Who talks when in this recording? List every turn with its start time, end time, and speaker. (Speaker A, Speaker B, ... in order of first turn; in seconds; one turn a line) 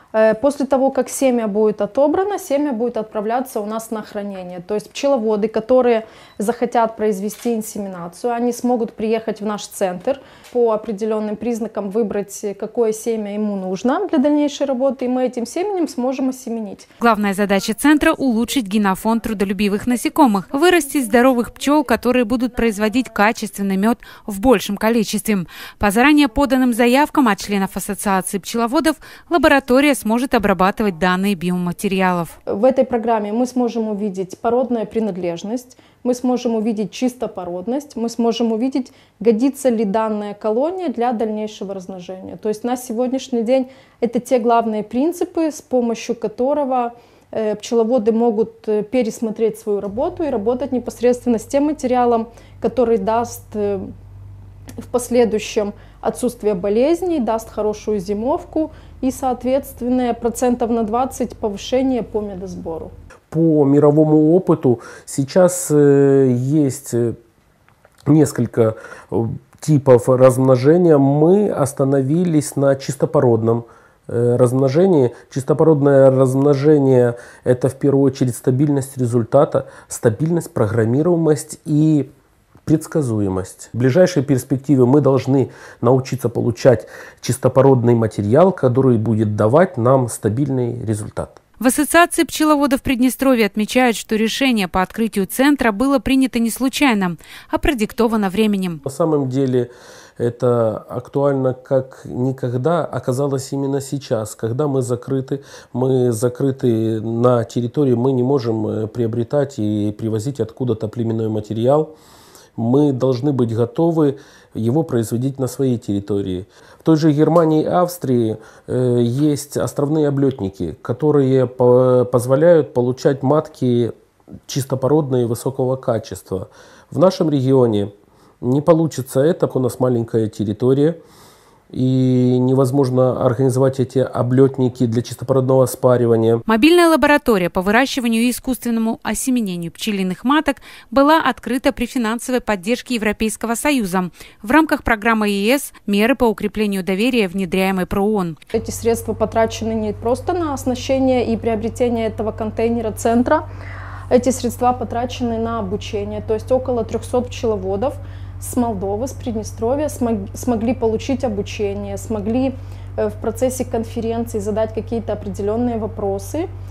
Speaker A: 0.1-16.9
Speaker B: 17.0-32.4
Speaker A: 32.5-53.9
Speaker A: 54.8-62.9
Speaker C: 63.3-67.2
Speaker C: 68.1-82.1
Speaker C: 82.7-91.4
Speaker B: 91.6-98.8
Speaker C: 98.8-111.9
Speaker C: 112.6-123.9
Speaker C: 124.5-131.0
Speaker C: 131.7-136.4
Speaker B: 136.5-148.4
Speaker A: 148.5-153.4
Speaker A: 154.1-166.5